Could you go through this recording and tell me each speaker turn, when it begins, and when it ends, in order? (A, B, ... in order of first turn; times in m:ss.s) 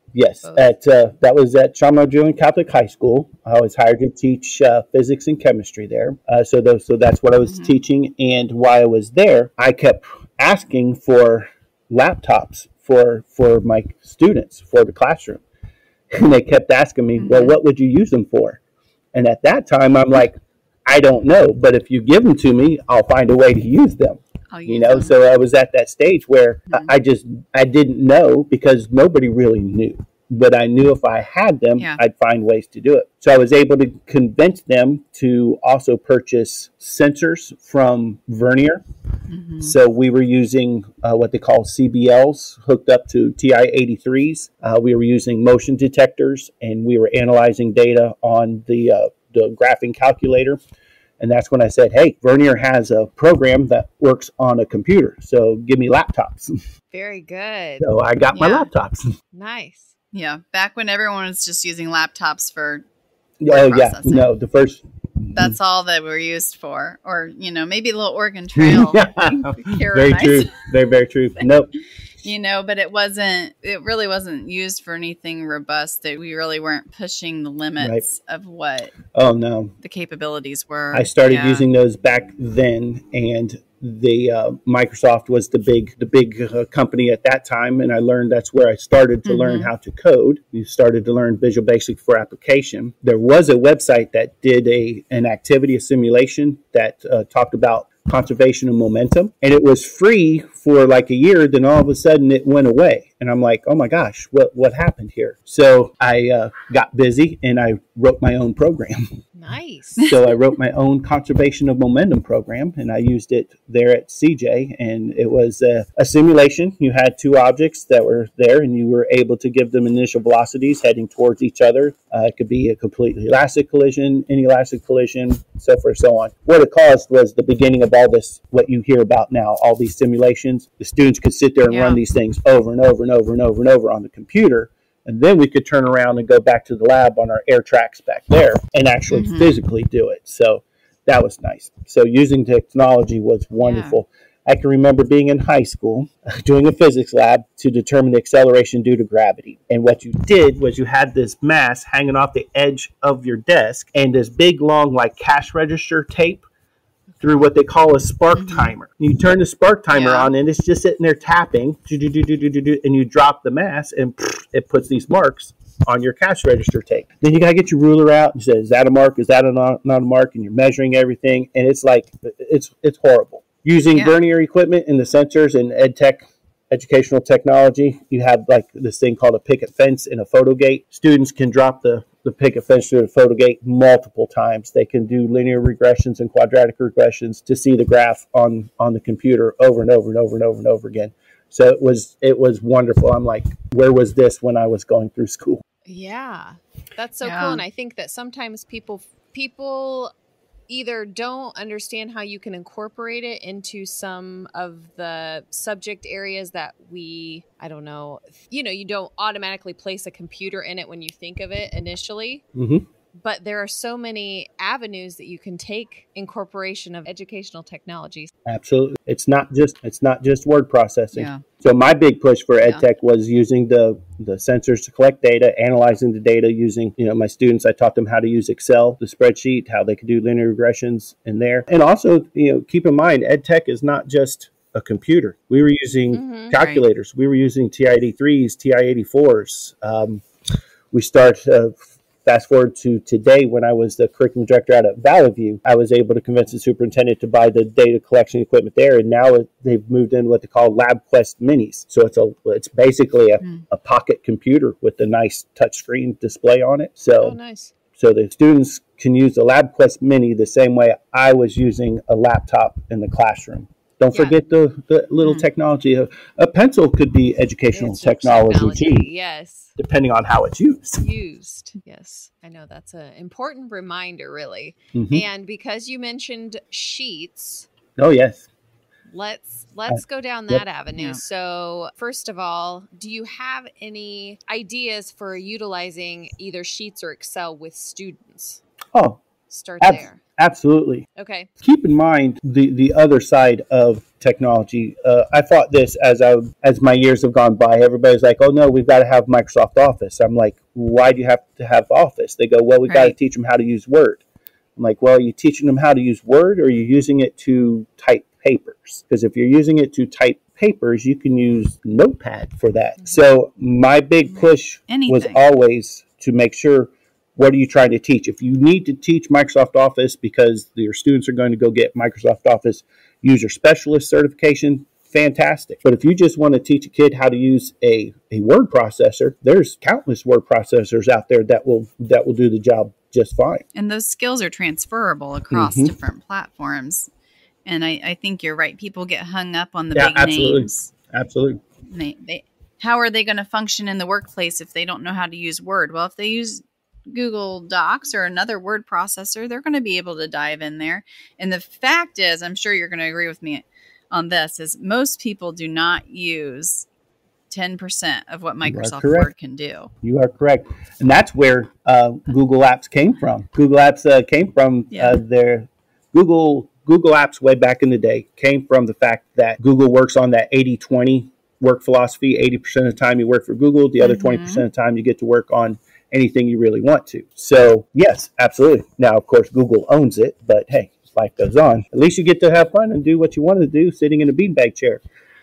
0:00.1-0:15.4 A
0:00.4-0:00.7 B
0:07.5-0:07.8 C
0:16.1-0:18.6 A
0:17.2-0:17.6 C
0:19.1-0:38.8 A
0:24.5-0:25.1 C
0:39.3-0:39.7 C
0:39.6-0:50.6 A
0:51.2-0:56.6 A
0:56.9-0:57.9 B
0:57.8-0:59.1 A
0:58.3-0:58.7 C
0:59.3-0:59.9 B
1:00.1-1:02.8 C
1:03.4-1:05.6 A
1:03.5-1:04.3 C
1:05.3-1:10.7 C
1:08.6-1:11.7 A
1:12.2-1:19.0 C
1:19.1-1:19.7 A
1:19.8-1:21.6 C
1:20.9-1:49.0 A
1:29.3-1:29.7 C
1:49.4-1:50.1 B
1:50.0-2:36.4 A
2:11.7-2:12.0 C
2:19.1-2:19.5 C
2:23.6-2:24.0 C
2:37.2-3:15.6 A
2:38.4-2:38.7 C
2:39.9-2:40.3 C
3:15.9-3:20.1 B
3:17.2-3:17.6 C
3:20.7-3:32.4 B
3:32.6-3:32.9 A
3:33.2-3:38.3 B
3:38.5-4:00.2 A
3:41.1-3:41.4 C
3:56.1-3:56.5 B
3:56.5-3:56.8 C
4:00.9-4:17.4 A
4:17.2-4:17.7 B
4:18.0-4:29.1 A
4:27.7-4:29.8 B
4:29.8-4:31.0 A
4:31.0-4:37.7 B
4:34.9-4:35.2 A
4:38.0-4:38.5 A
4:39.1-4:48.6 B
4:39.9-4:40.6 A
4:48.9-4:49.2 A
4:49.5-4:50.2 B
4:49.8-4:51.1 A
4:51.2-4:51.5 B
4:51.6-5:04.2 A
5:02.9-5:03.1 C
5:04.8-5:33.6 A
5:14.4-5:15.4 C
5:33.8-5:37.1 C
5:35.5-5:36.0 A
5:37.6-5:40.9 C
5:40.0-5:41.6 A
5:41.9-5:56.9 C
5:57.5-5:59.9 C
5:58.6-5:59.3 A
6:00.0-6:25.0 A
6:04.9-6:05.2 C
6:14.0-6:14.6 C